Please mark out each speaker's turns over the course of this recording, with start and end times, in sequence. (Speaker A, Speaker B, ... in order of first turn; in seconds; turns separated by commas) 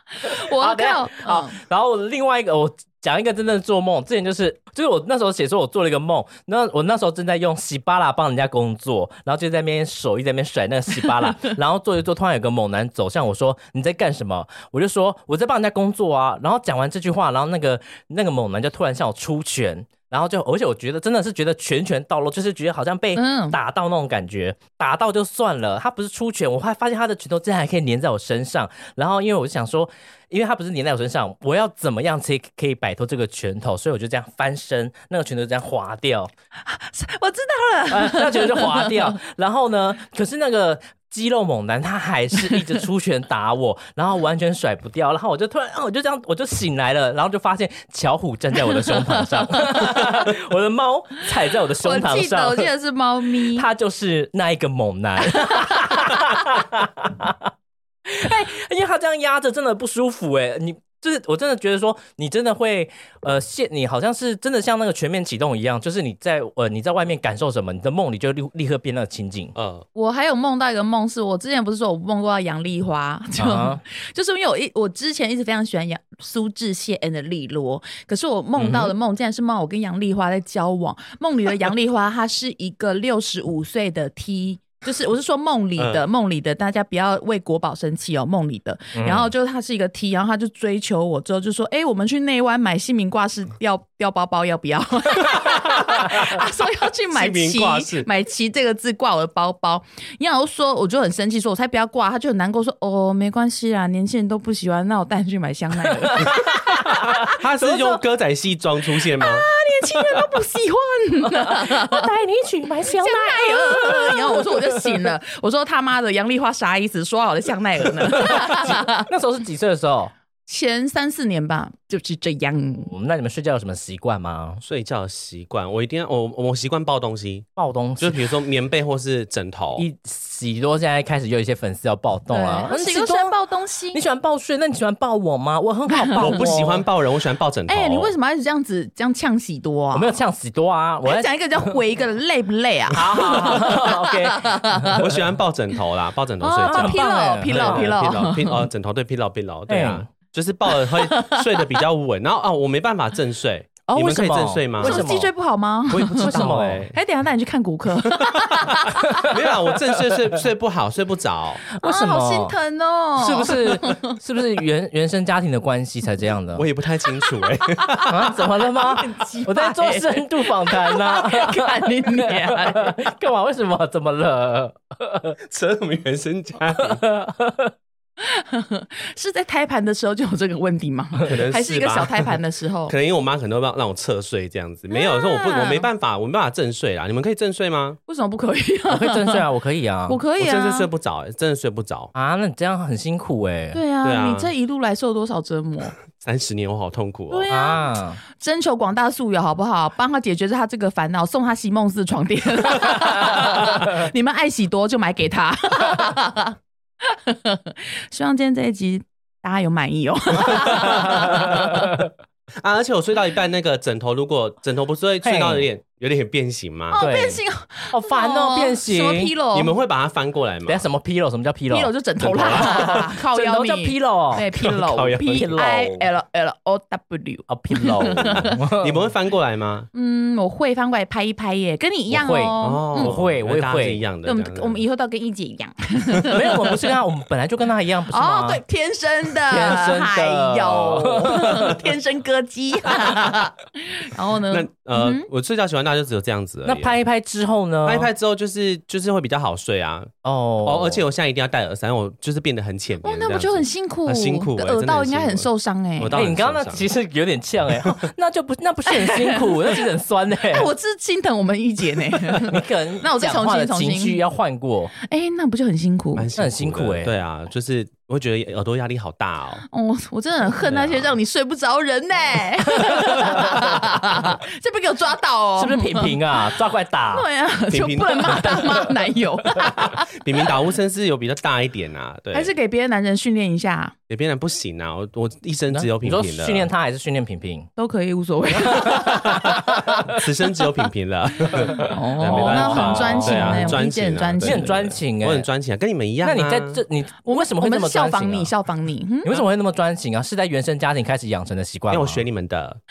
Speaker A: 0.2-36.3, Speaker B: 0.2-1.5, Speaker B: 23.1-23.6, Speaker B: 36.7-39.1, Speaker A: 37.9-52.7, Speaker B: 49.7-50.1, Speaker B: 51.8-53.6, Speaker A: 53.5-57.5, Speaker B: 55.3-56.0, Speaker A: 58.0-69.5, Speaker C: 69.5-69.8, Speaker B: 69.9-106.8, Speaker A: 73.4-73.8, Speaker A: 78.6-78.9, Speaker C: 85.8-86.0, Speaker A: 89.0-89.3, Speaker C: 95.3-96.2, Speaker C: 97.1-98.1, Speaker A: 106.0-108.0, Speaker C: 107.2-109.5, Speaker B: 109.2-112.1, Speaker A: 111.2-114.8, Speaker B: 112.8-119.1, Speaker A: 118.2-120.1, Speaker B: 120.5-122.9, Speaker A: 122.8-124.6, Speaker C: 124.6-127.5, Speaker A: 127.5-128.2, Speaker C: 128.0-129.8, Speaker A: 129.8-133.3, Speaker B: 132.3-134.0, Speaker A: 133.9-136.8, Speaker B: 135.9-136.4, Speaker C: 136.2-138.1, Speaker B: 137.7-140.2, Speaker A: 139.9-141.7, Speaker B: 141.0-145.0, Speaker A: 142.9-145.0, Speaker C: 144.9-155.1, Speaker B: 146.4-148.7, Speaker A: 146.6-147.9, Speaker A: 149.7-150.1, Speaker B: 150.9-151.7, Speaker A: 153.9-155.3, Speaker B: 154.8-159.2, Speaker C: 155.9-157.0, Speaker A: 156.2-156.9, Speaker C: 158.0-161.6, Speaker A: 159.0-159.3, Speaker A: 161.7-162.6, Speaker B: 161.8-164.1, Speaker A: 163.2-166.7, Speaker C: 166.6-168.2, Speaker A: 168.1-175.3, Speaker B: 168.7-173.0, Speaker C: 175.4-177.0, Speaker A: 176.9-177.7, Speaker B: 178.2-182.9, Speaker C: 181.2-182.3, Speaker C: 182.9-188.0, Speaker B: 184.9-185.9, Speaker B: 188.1-189.4, Speaker A: 188.9-190.2, Speaker B: 190.1-190.9, Speaker C: 190.4-192.1, Speaker A: 192.1-193.8, Speaker B: 193.7-195.9, Speaker C: 194.0-194.5, Speaker C: 196.1-197.4, Speaker B: 197.3-211.8, Speaker A: 197.5-198.2, Speaker A: 210.7-212.0, Speaker C: 212.6-217.0, Speaker A: 215.2-215.7, Speaker B: 216.9-219.8, Speaker A: 217.0-219.3, Speaker C: 219.5-220.8, Speaker A: 220.7-224.5, Speaker B: 221.7-228.5, Speaker C: 222.2-223.0, Speaker C: 224.5-225.8, Speaker A: 225.3-225.9, Speaker A: 227.5-229.0, Speaker C: 228.2-229.9, Speaker B: 229.9-233.1, Speaker A: 232.1-234.0, Speaker C: 232.6-234.8, Speaker B: 234.2-236.8, Speaker A: 236.2-238.6, Speaker B: 238.1-245.3, Speaker A: 239.5-241.8, Speaker C: 244.5-246.9, Speaker A: 246.6-248.1, Speaker C: 247.8-250.1, Speaker A: 250.2-251.0, Speaker C: 250.6-256.9, Speaker B: 253.0-256.1, Speaker A: 256.1-260.7, Speaker B: 258.9-259.8, Speaker B: 260.5-264.2, Speaker A: 262.4-264.9, Speaker B: 265.0-266.3, Speaker C: 266.1-269.6, Speaker A: 266.4-267.1, Speaker B: 269.7-276.4, Speaker C: 270.6-271.1, Speaker A: 272.8-273.5, Speaker A: 275.6-277.2, Speaker B: 277.1-280.2, Speaker C: 277.7-278.6, Speaker C: 279.6-282.5, Speaker B: 282.3-283.9, Speaker C: 284.1-286.7, Speaker A: 285.7-287.7, Speaker B: 287.8-289.7, Speaker A: 288.6-289.9, Speaker C: 290.1-296.8, Speaker A: 291.8-293.8, Speaker B: 291.8-294.7, Speaker A: 294.4-295.5, Speaker A: 296.2-298.5, Speaker B: 297.2-299.4, Speaker A: 299.2-302.2, Speaker C: 301.9-302.8